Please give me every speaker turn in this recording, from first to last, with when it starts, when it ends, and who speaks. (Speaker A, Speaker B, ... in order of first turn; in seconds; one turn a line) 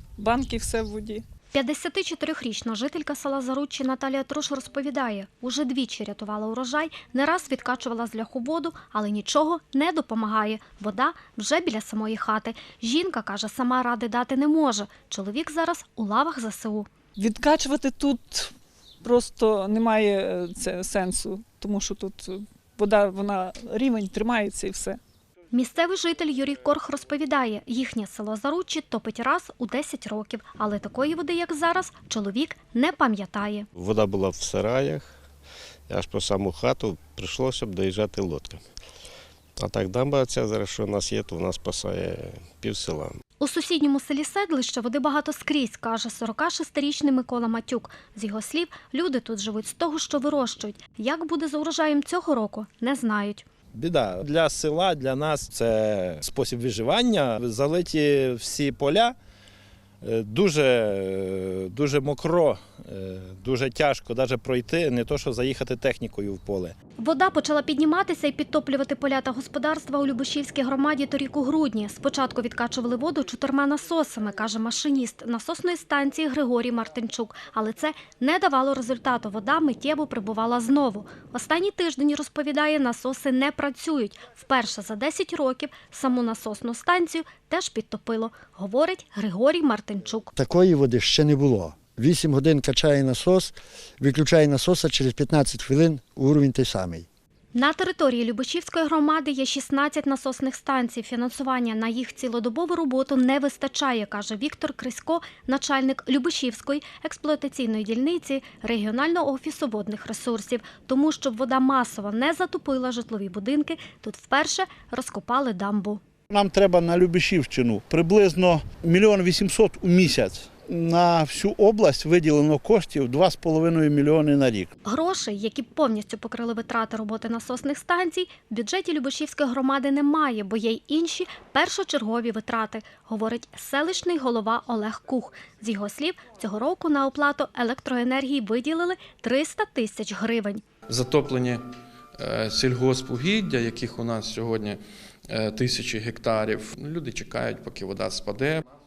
Speaker A: 0.2-1.2
Speaker B: 1.5-16.9
Speaker A: 17.2-25.0
Speaker B: 25.5-33.7
Speaker C: 33.8-35.2
Speaker C: 35.9-38.6
Speaker C: 39.6-43.2
Speaker B: 43.4-53.5
Speaker D: 53.7-59.2
Speaker D: 60.0-66.8
Speaker B: 67.0-90.3
Speaker E: 90.3-97.1
Speaker B: 97.5-116.0
Speaker F: 116.3-124.7
Speaker B: 124.8-140.6
Speaker G: 140.9-141.6
Speaker G: 142.2-144.8
Speaker G: 145.3-148.6